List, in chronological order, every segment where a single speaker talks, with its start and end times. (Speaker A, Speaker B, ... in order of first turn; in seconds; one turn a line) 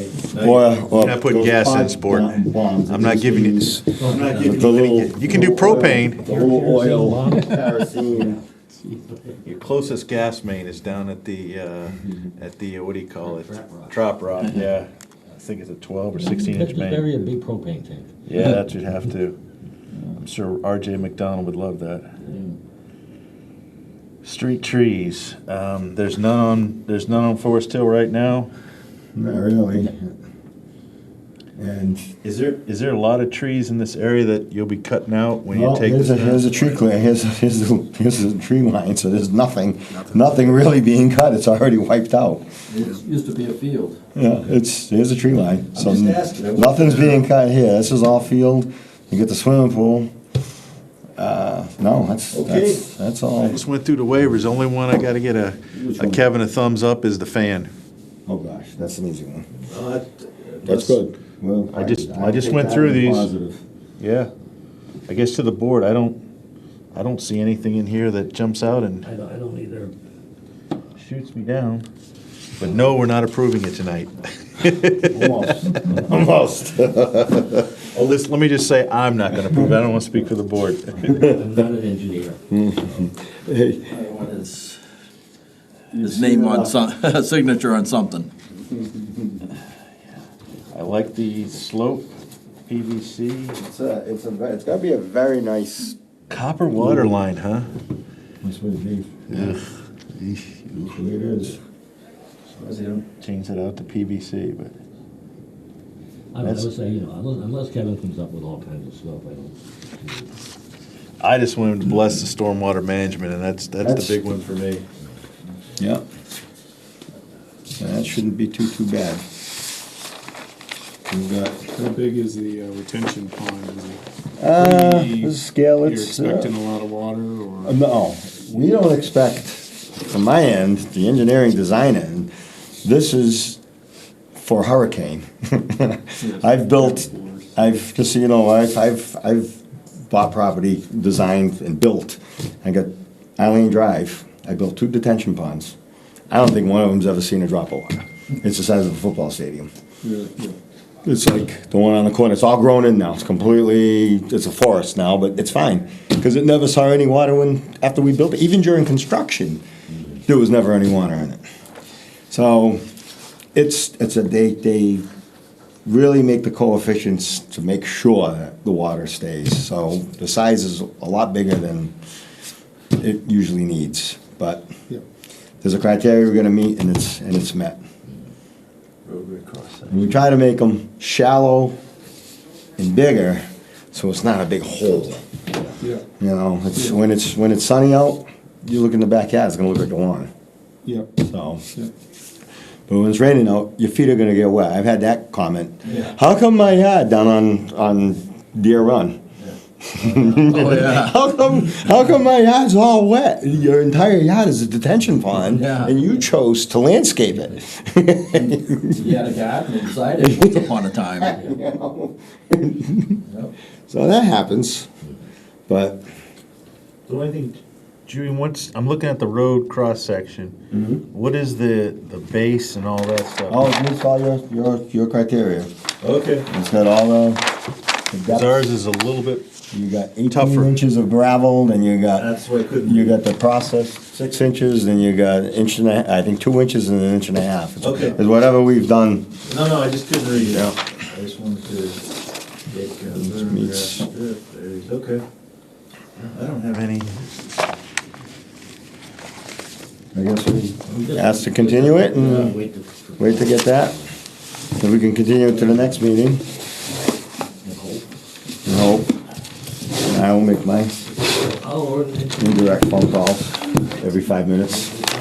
Speaker A: 0.3-6.2
Speaker B: 0.3-8.4
Speaker C: 4.0-4.7
Speaker C: 6.1-8.4
Speaker A: 9.4-17.1
Speaker C: 16.1-18.1
Speaker A: 18.2-19.4
Speaker A: 20.1-22.1
Speaker C: 22.2-22.5
Speaker A: 24.2-28.5
Speaker B: 29.1-30.1
Speaker B: 31.6-32.1
Speaker A: 32.2-36.9
Speaker B: 35.5-42.4
Speaker D: 42.7-44.0
Speaker B: 44.1-50.1
Speaker D: 45.7-46.8
Speaker A: 46.7-47.2
Speaker B: 51.2-53.6
Speaker A: 52.3-57.7
Speaker B: 58.3-59.5
Speaker A: 59.7-61.0
Speaker B: 60.6-63.6
Speaker A: 61.7-63.3
Speaker A: 64.0-64.3
Speaker A: 65.1-66.2
Speaker A: 66.9-69.1
Speaker C: 69.0-69.9
Speaker A: 71.0-71.8
Speaker A: 72.6-75.7
Speaker B: 75.1-77.6
Speaker A: 77.9-81.3
Speaker C: 80.9-83.1
Speaker B: 82.5-83.9
Speaker D: 83.9-84.8
Speaker B: 85.9-86.8
Speaker D: 86.0-88.3
Speaker A: 90.7-92.1
Speaker A: 92.7-93.6
Speaker B: 93.5-96.0
Speaker A: 96.3-97.7
Speaker B: 98.4-99.6
Speaker A: 99.3-100.6
Speaker B: 100.7-101.6
Speaker A: 102.6-104.7
Speaker C: 106.3-110.3
Speaker A: 106.4-106.7
Speaker A: 111.2-114.8
Speaker B: 113.8-114.2
Speaker B: 115.8-116.0
Speaker B: 117.8-119.2
Speaker B: 121.1-121.6
Speaker E: 121.7-124.0
Speaker B: 124.4-126.5
Speaker E: 124.5-127.8
Speaker B: 127.7-132.3
Speaker B: 132.8-133.6
Speaker B: 134.4-145.8
Speaker E: 136.2-137.5
Speaker B: 146.3-149.7
Speaker E: 150.0-150.6
Speaker B: 151.0-159.6
Speaker B: 160.2-161.4
Speaker B: 162.3-162.8
Speaker B: 163.5-165.1
Speaker B: 165.8-171.9
Speaker B: 172.9-174.7
Speaker B: 175.6-177.8
Speaker A: 179.0-180.0
Speaker B: 179.9-181.7
Speaker B: 182.8-185.2
Speaker E: 185.8-186.0
Speaker B: 186.2-190.3
Speaker E: 190.8-191.2
Speaker B: 191.2-191.6
Speaker B: 192.9-199.2
Speaker B: 199.8-209.2
Speaker D: 200.4-201.2
Speaker D: 205.4-206.0
Speaker D: 208.3-211.4
Speaker B: 210.4-213.2
Speaker B: 213.9-214.9
Speaker B: 215.7-216.0
Speaker A: 217.1-220.6
Speaker B: 220.7-221.0
Speaker A: 221.1-223.6
Speaker B: 223.5-225.7
Speaker A: 226.0-226.5
Speaker B: 226.5-227.4
Speaker B: 228.1-228.7
Speaker A: 228.3-229.5
Speaker B: 229.7-232.3
Speaker A: 230.3-230.8
Speaker A: 232.2-233.2
Speaker B: 232.8-239.3
Speaker A: 237.8-238.2
Speaker A: 239.4-242.0
Speaker B: 240.4-240.8
Speaker A: 242.7-245.2
Speaker B: 243.2-244.0
Speaker A: 246.2-247.3
Speaker B: 250.1-252.6
Speaker C: 250.9-254.1
Speaker B: 253.2-254.0
Speaker B: 254.8-256.4
Speaker C: 257.6-258.0
Speaker B: 258.6-259.2
Speaker B: 260.0-260.9
Speaker C: 261.6-262.6
Speaker B: 262.4-264.9